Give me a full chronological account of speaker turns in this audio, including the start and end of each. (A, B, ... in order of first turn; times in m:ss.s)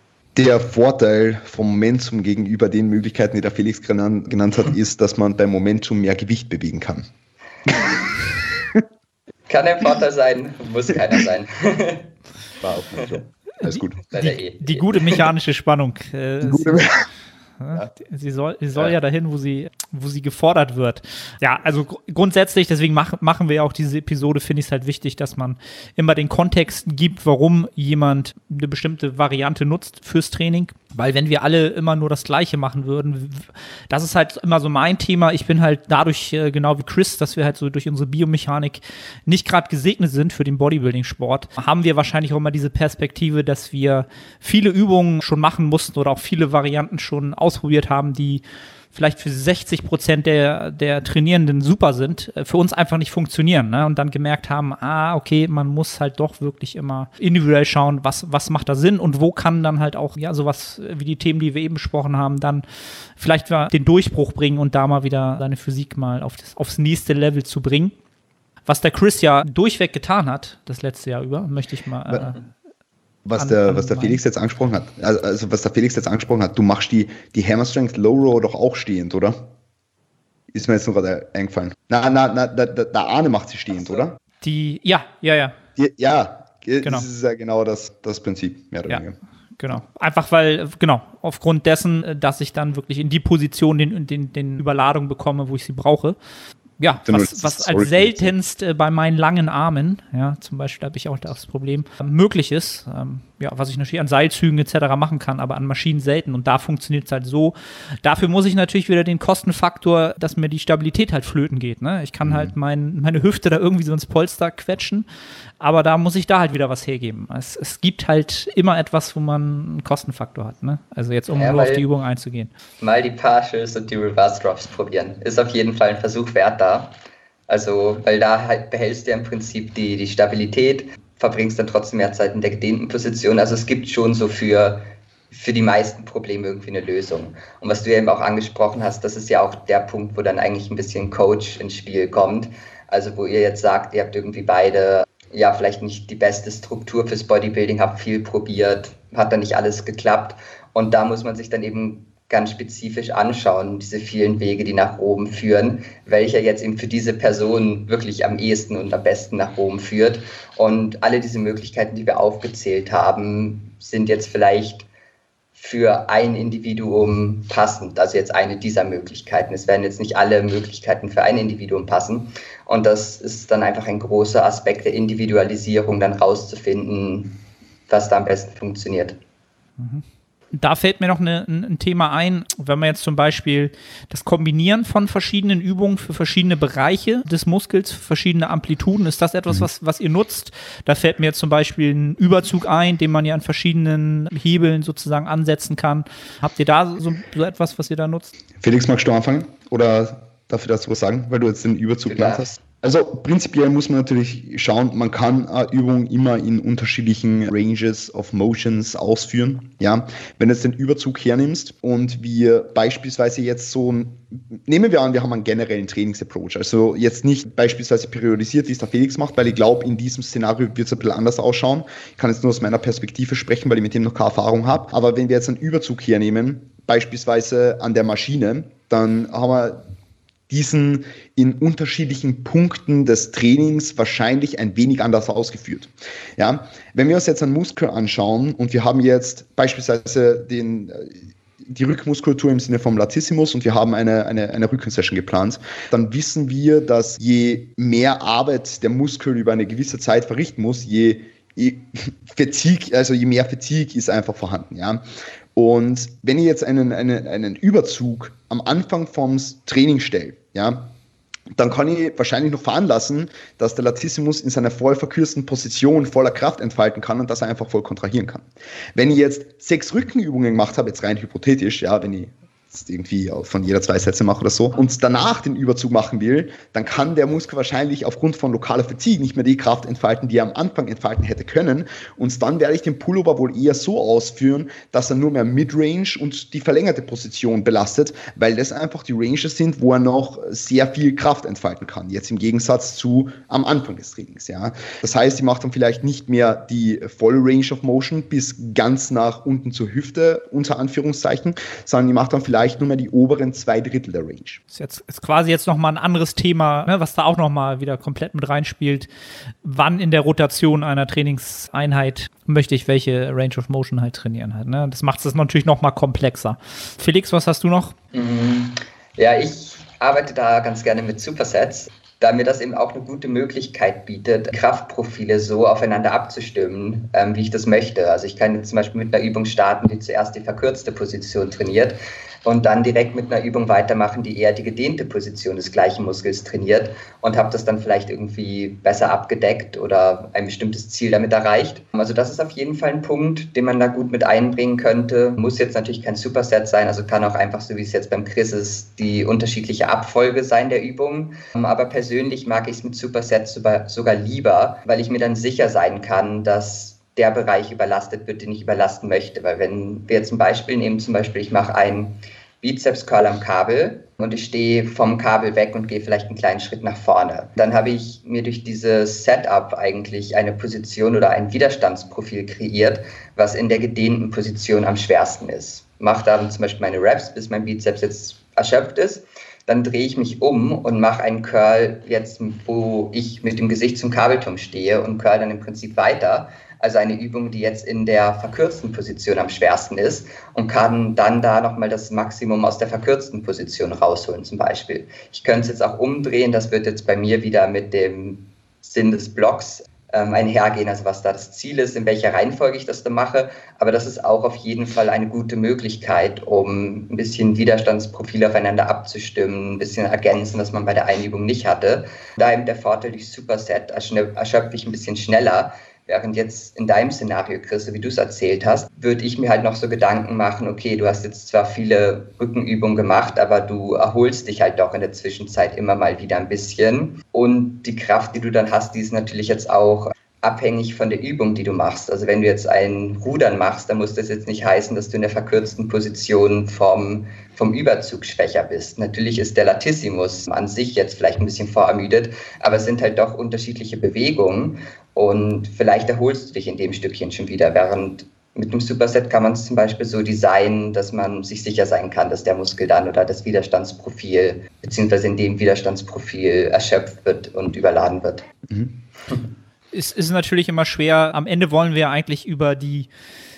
0:00.4-0:07.1 A
0:09.5-0:12.1 B
0:12.6-0:14.0 A
0:13.6-0:16.8 C
0:14.1-0:15.3 B
0:16.4-0:17.1 A
0:17.6-0:48.4 C
0:48.9-1:02.6 C
1:03.2-1:08.0 C
1:08.7-1:12.5 C
1:13.3-1:19.5 A
1:13.4-1:14.2 C
1:20.5-1:24.2 A
1:24.4-1:25.6 C
1:25.8-1:29.2 A
1:29.6-1:36.2 C
1:36.8-1:55.1 C
1:37.1-1:38.3 A
1:52.2-1:52.5 A
1:55.6-2:02.5 C
2:01.4-2:01.8 B
2:02.8-2:06.9 B
2:07.5-2:44.9 B
2:45.6-2:57.3 B
2:57.9-2:59.2 B
2:59.8-3:00.0 C
3:00.6-3:18.3 C
3:18.6-3:49.8 A
3:22.1-3:22.5 B
3:50.5-4:15.0 A
4:15.6-4:20.9 A
4:21.5-5:04.6 A
5:04.7-5:09.1 C
5:09.6-5:18.0 C
5:18.1-7:38.4 B
7:38.7-7:39.0 A
7:39.9-7:43.1 C